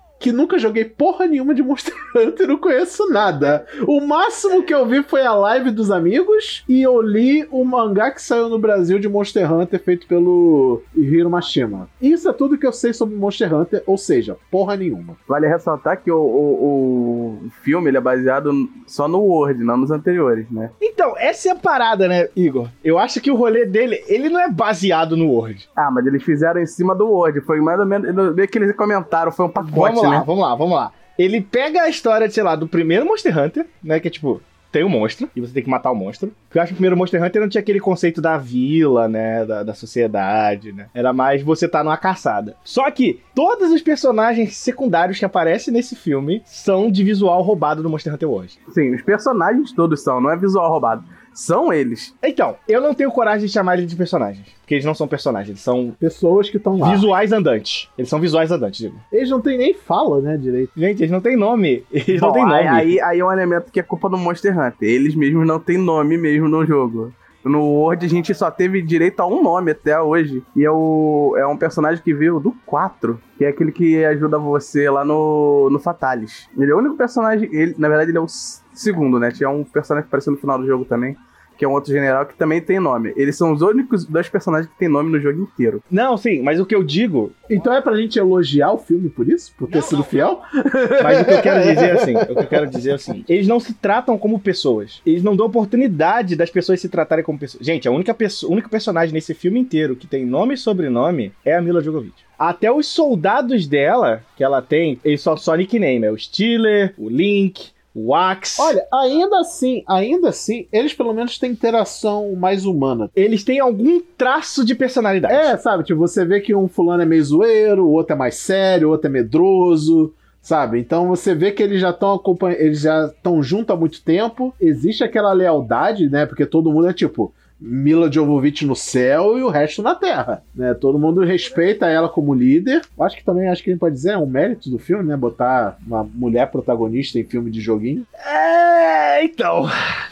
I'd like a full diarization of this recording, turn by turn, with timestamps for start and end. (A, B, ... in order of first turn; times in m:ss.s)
0:00.2-0:15.2 A
0:15.3-0:20.7 B
0:20.8-0:25.6 C
0:25.8-0:30.2 B
0:29.6-0:48.5 C
0:48.7-0:52.1 B
0:52.2-0:56.0 C
0:56.0-0:57.1 A
0:56.8-0:59.0 C
0:59.1-1:00.7 A
1:00.8-1:03.0 C
1:02.1-1:25.8 B
1:25.9-1:27.4 C
1:27.5-1:32.8 A
1:31.0-1:48.8 C
1:48.6-1:53.1 A
1:53.2-1:55.5 C
1:55.3-2:18.1 A
2:18.2-2:19.8 C